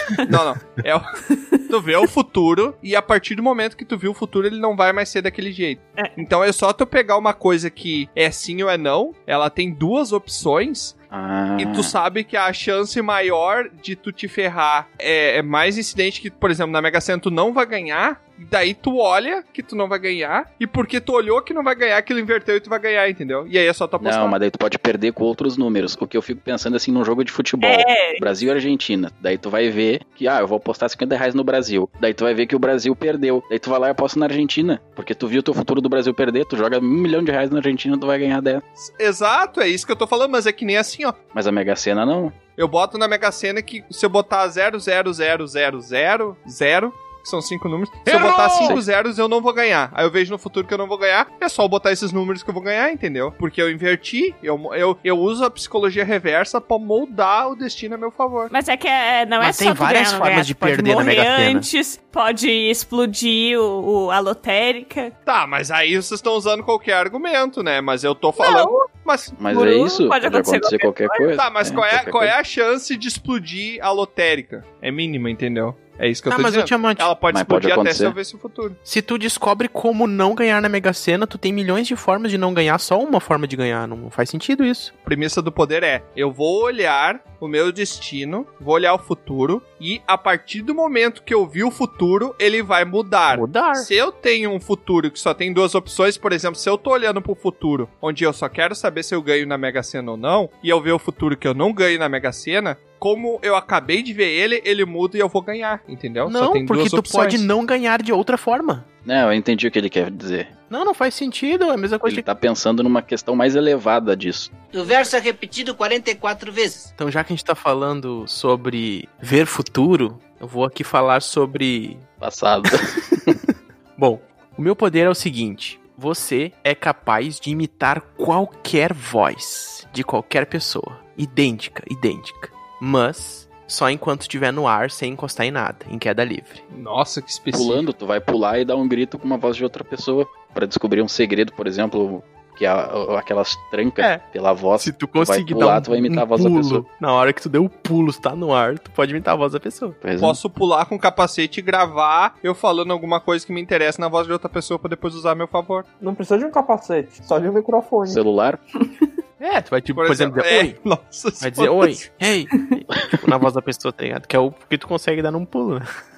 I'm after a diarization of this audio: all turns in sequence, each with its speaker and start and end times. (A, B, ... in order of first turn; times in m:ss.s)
0:00.2-0:11.0 A
0:11.1-0:11.9 B
0:11.6-0:24.4 A
0:24.0-0:38.6 B
0:27.6-0:28.2 C
0:38.8-0:41.2 A
0:41.3-0:42.4 B
0:42.6-0:58.5 A
0:48.1-0:48.8 B
0:58.5-1:05.1 C
0:59.4-1:01.7 D
1:05.3-1:09.4 A
1:08.4-1:08.8 C
1:09.4-1:12.4 B
1:09.5-1:11.3 C
1:11.4-1:18.8 A
1:16.3-1:17.1 D
1:17.3-1:18.2 B
1:18.8-1:24.9 D
1:25.0-1:47.5 A
1:33.3-1:33.9 D
1:46.3-1:48.9 D
1:49.0-1:50.6 B
1:50.7-1:52.3 D
1:52.0-1:54.5 B
1:54.7-1:56.9 E
1:57.0-2:02.0 D
2:02.2-2:03.4 B
2:04.0-2:16.6 D
2:16.7-2:17.8 A
2:17.5-2:26.8 B
2:24.8-2:30.0 D
2:30.0-2:30.4 B
2:30.2-2:35.9 A
2:36.0-2:38.2 F
2:38.1-2:38.6 B
2:39.4-2:40.8 D
2:39.9-2:42.0 A
2:41.4-2:45.9 D